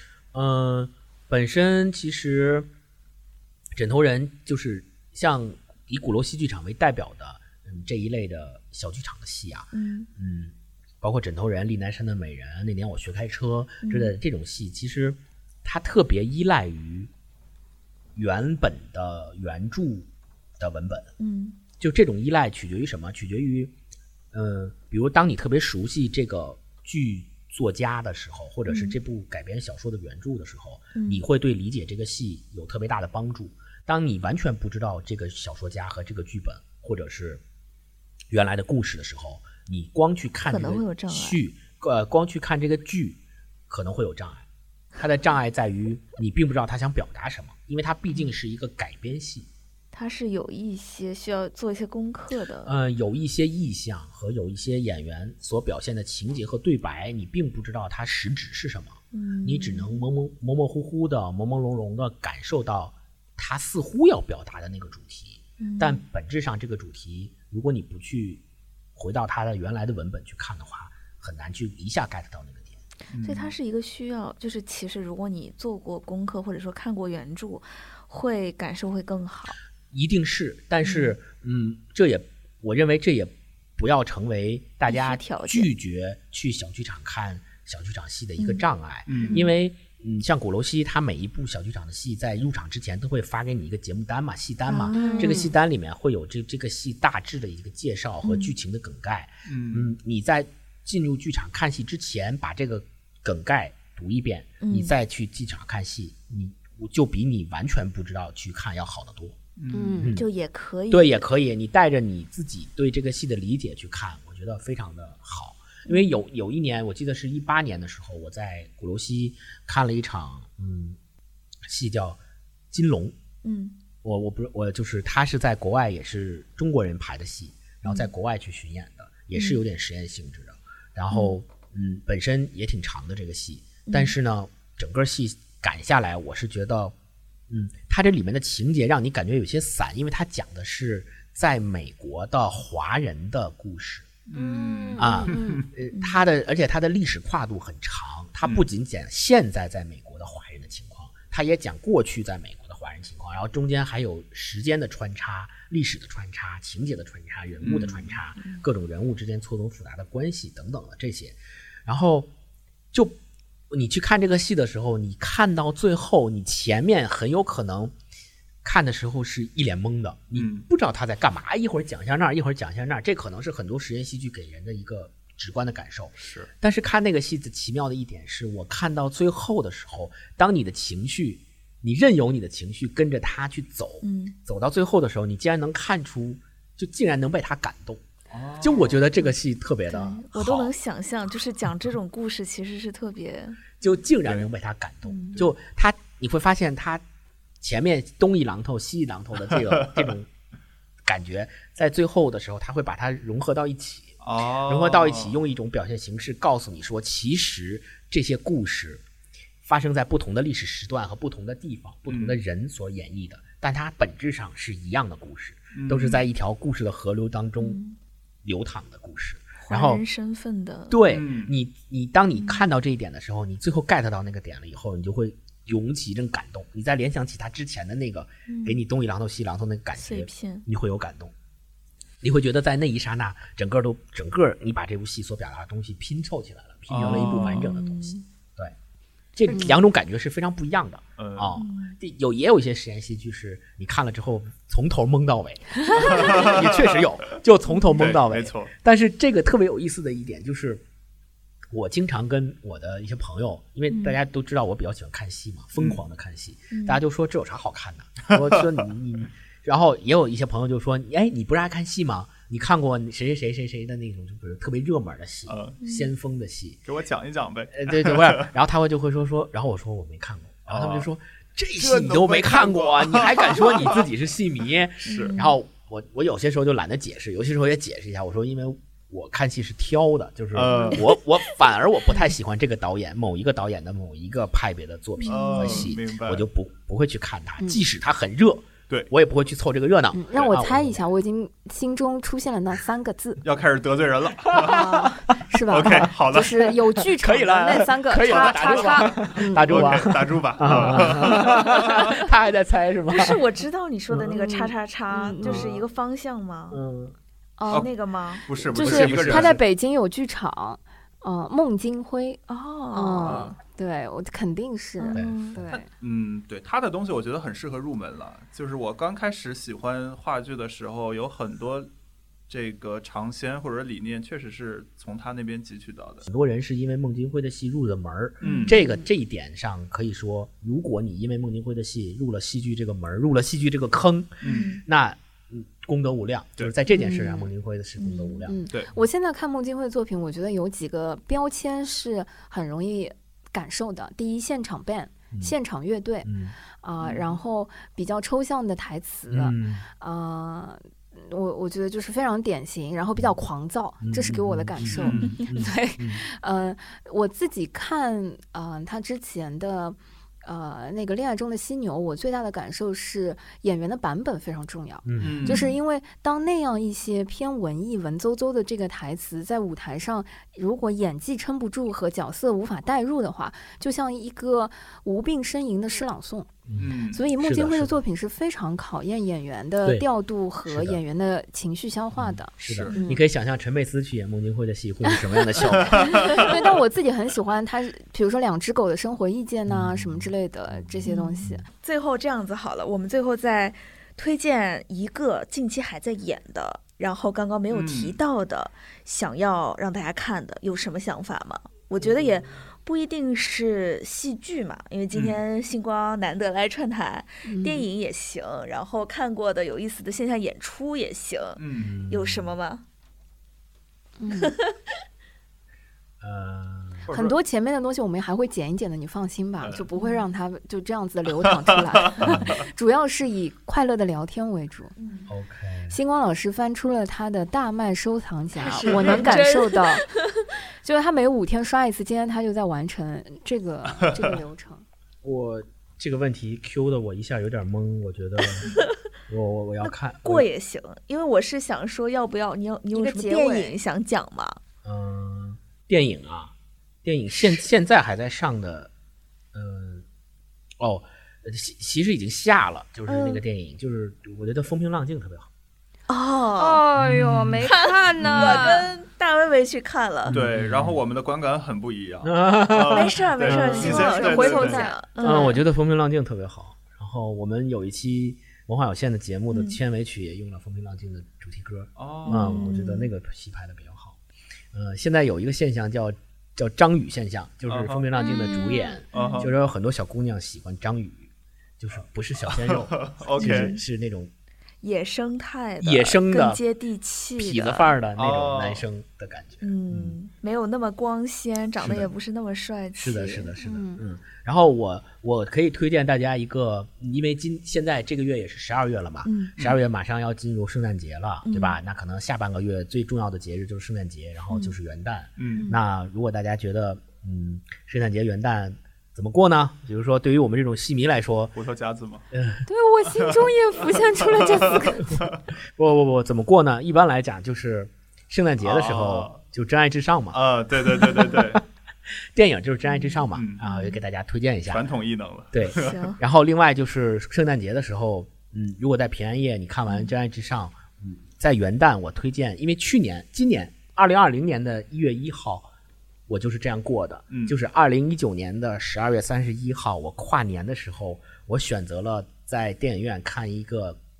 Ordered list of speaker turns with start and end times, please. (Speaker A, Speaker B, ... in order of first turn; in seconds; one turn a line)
Speaker A: 0.3-2.7
Speaker A: 3.8-17.1
Speaker B: 9.7-10.1
Speaker B: 13.8-14.1
Speaker A: 18.1-20.1
Speaker A: 20.6-21.1
Speaker B: 21.2-21.6
Speaker A: 21.8-23.7
Speaker A: 24.3-37.4
Speaker B: 28.7-28.9
Speaker B: 30.9-31.2
Speaker A: 38.3-44.4
Speaker B: 40.4-41.4
Speaker A: 45.0-49.5
Speaker B: 49.9-52.7
Speaker A: 52.6-68.4
Speaker B: 59.1-60.0
Speaker B: 65.6-66.0
Speaker A: 68.9-72.8
Speaker C: 73.1-73.5
Speaker B: 73.2-79.6
Speaker A: 79.9-109.3
Speaker B: 80.8-81.1
Speaker B: 84.9-85.7
Speaker B: 88.4-88.6
Speaker C: 89.1-89.5
Speaker B: 89.2-89.5
Speaker B: 94.7-95.5
Speaker D: 94.9-95.5
Speaker B: 98.2-98.5
Speaker C: 99.5-99.9
Speaker B: 104.6-104.9
Speaker C: 109.6-110.1
Speaker D: 109.7-110.2
Speaker A: 110.0-110.3
Speaker B: 110.2-111.3
Speaker A: 110.9-121.0
Speaker B: 115.8-116.1
Speaker A: 121.7-122.2
Speaker A: 122.7-123.1
Speaker B: 123.4-123.7
Speaker A: 124.0-136.9
Speaker B: 129.3-129.6
Speaker B: 131.1-131.3
Speaker B: 133.9-134.1
Speaker A: 137.5-144.1
Speaker C: 144.3-145.7
Speaker D: 144.3-145.6
Speaker A: 145.0-162.3
Speaker C: 157.6-158.2
Speaker B: 158.4-158.6
Speaker A: 163.7-167.9
Speaker A: 168.6-188.0
Speaker C: 170.3-170.6
Speaker C: 176.2-176.5
Speaker B: 184.0-184.3
Speaker C: 188.3-189.0
Speaker A: 188.6-190.7
Speaker B: 189.9-193.7
Speaker A: 193.8-197.0
Speaker B: 195.1-195.4
Speaker A: 197.6-200.3
Speaker A: 201.0-209.0
Speaker C: 204.2-205.3
Speaker A: 209.6-217.8
Speaker C: 212.1-212.3
Speaker C: 215.7-216.2
Speaker B: 217.6-217.9
Speaker A: 218.4-220.0
Speaker B: 219.6-221.0
Speaker A: 220.9-231.3
Speaker C: 221.1-221.5
Speaker B: 222.4-222.6
Speaker B: 228.5-228.8
Speaker B: 229.9-230.6
Speaker A: 232.2-238.7
Speaker C: 236.9-237.7
Speaker B: 236.9-238.2
Speaker A: 239.3-250.8
Speaker D: 239.5-239.8
Speaker C: 241.2-241.6
Speaker B: 241.6-242.0
Speaker C: 245.9-247.0
Speaker C: 247.9-248.7
Speaker A: 251.7-266.8
Speaker B: 253.9-254.2
Speaker B: 256.7-257.0
Speaker C: 265.5-265.8
Speaker B: 265.8-266.1
Speaker C: 266.8-268.5
Speaker A: 267.7-291.0
Speaker C: 270.6-271.1
Speaker C: 271.8-274.0
Speaker C: 275.0-275.3
Speaker B: 275.1-275.6
Speaker C: 280.5-281.0
Speaker B: 280.7-281.1
Speaker B: 285.2-285.9
Speaker C: 285.3-286.4
Speaker D: 290.1-293.4
Speaker C: 293.4-295.1
Speaker A: 294.5-294.9
Speaker D: 294.5-299.8
Speaker C: 295.7-296.7
Speaker A: 295.8-296.1
Speaker A: 297.2-303.4
Speaker C: 298.2-302.2
Speaker B: 300.7-301.1
Speaker B: 303.1-306.8
Speaker D: 304.2-305.7
Speaker A: 305.4-305.8
Speaker A: 306.7-307.1
Speaker D: 307.6-307.9
Speaker B: 307.7-309.2
Speaker C: 308.4-309.6
Speaker A: 308.6-309.6
Speaker D: 308.7-312.4
Speaker B: 312.5-313.6
Speaker D: 312.9-315.9
Speaker C: 313.2-313.5
Speaker B: 315.0-315.6
Speaker A: 315.1-315.6
Speaker C: 315.7-321.9
Speaker C: 322.5-326.2
Speaker A: 326.2-338.6
Speaker B: 328.4-328.8
Speaker C: 328.4-328.7
Speaker D: 328.6-329.1
Speaker C: 334.4-334.7
Speaker B: 334.4-334.8
Speaker D: 336.9-337.5
Speaker B: 338.0-338.5
Speaker D: 338.5-346.3
Speaker A: 346.2-346.5
Speaker D: 346.8-376.5
Speaker C: 347.0-347.3
Speaker A: 349.3-349.8
Speaker A: 354.0-356.2
Speaker C: 354.8-355.3
Speaker A: 365.0-365.7
Speaker C: 365.2-365.7
Speaker A: 376.7-378.0
Speaker C: 376.8-377.2
Speaker D: 377.1-383.2
Speaker A: 380.6-381.0
Speaker A: 382.2-386.6
Speaker C: 382.6-382.9
Speaker D: 385.1-391.6
Speaker C: 385.9-386.5
Speaker A: 389.7-391.6
Speaker B: 391.1-412.8
Speaker C: 397.7-398.2
Speaker A: 402.0-402.5
Speaker C: 405.1-405.4
Speaker D: 407.4-407.9
Speaker C: 411.6-411.9
Speaker A: 411.8-412.5
Speaker D: 414.2-414.6
Speaker B: 414.4-414.7
Speaker A: 416.2-417.1
Speaker C: 417.1-417.4
Speaker D: 417.1-424.9
Speaker C: 422.1-422.5
Speaker A: 422.2-422.5
Speaker B: 425.0-425.3
Speaker A: 425.3-426.0
Speaker D: 425.9-430.0
Speaker B: 428.6-430.3
Speaker C: 428.9-429.3
Speaker D: 430.8-434.8
Speaker A: 435.2-438.8
Speaker B: 438.5-438.9
Speaker A: 439.3-440.5
Speaker B: 439.8-444.6
Speaker D: 442.9-443.8
Speaker A: 444.8-448.9
Speaker A: 449.5-450.0
Speaker A: 450.8-455.5
Speaker B: 453.1-453.4
Speaker B: 456.1-456.8
Speaker D: 456.6-458.9
Speaker A: 457.0-457.7
Speaker B: 457.7-460.4
Speaker C: 458.3-458.6
Speaker A: 460.2-461.0
Speaker C: 460.3-464.9
Speaker A: 462.2-464.0
Speaker B: 462.9-465.6
Speaker D: 463.6-465.6
Speaker A: 465.2-474.2
Speaker B: 469.5-469.8
Speaker C: 472.0-472.6
Speaker B: 472.2-473.1
Speaker A: 474.7-484.3
Speaker C: 477.7-478.0
Speaker D: 478.2-479.0
Speaker C: 479.1-479.5
Speaker B: 479.1-479.5
Speaker C: 482.5-483.8
Speaker B: 483.4-483.8
Speaker B: 484.8-487.9
Speaker A: 485.8-486.6
Speaker A: 487.4-490.1
Speaker C: 488.1-488.8
Speaker B: 489.6-493.5
Speaker A: 492.9-511.6
Speaker D: 493.6-494.0
Speaker B: 499.2-499.5
Speaker B: 501.4-501.8
Speaker C: 505.4-505.7
Speaker C: 511.5-512.2
Speaker A: 512.3-512.6
Speaker D: 512.7-515.2
Speaker C: 514.0-515.4
Speaker A: 515.8-521.6
Speaker C: 518.6-519.4
Speaker C: 520.3-521.6
Speaker A: 522.3-524.9
Speaker B: 522.9-523.2
Speaker C: 523.3-523.6
Speaker D: 523.6-524.0
Speaker C: 524.6-526.0
Speaker A: 525.5-535.7
Speaker B: 525.7-526.2
Speaker A: 536.3-544.0
Speaker C: 537.3-537.5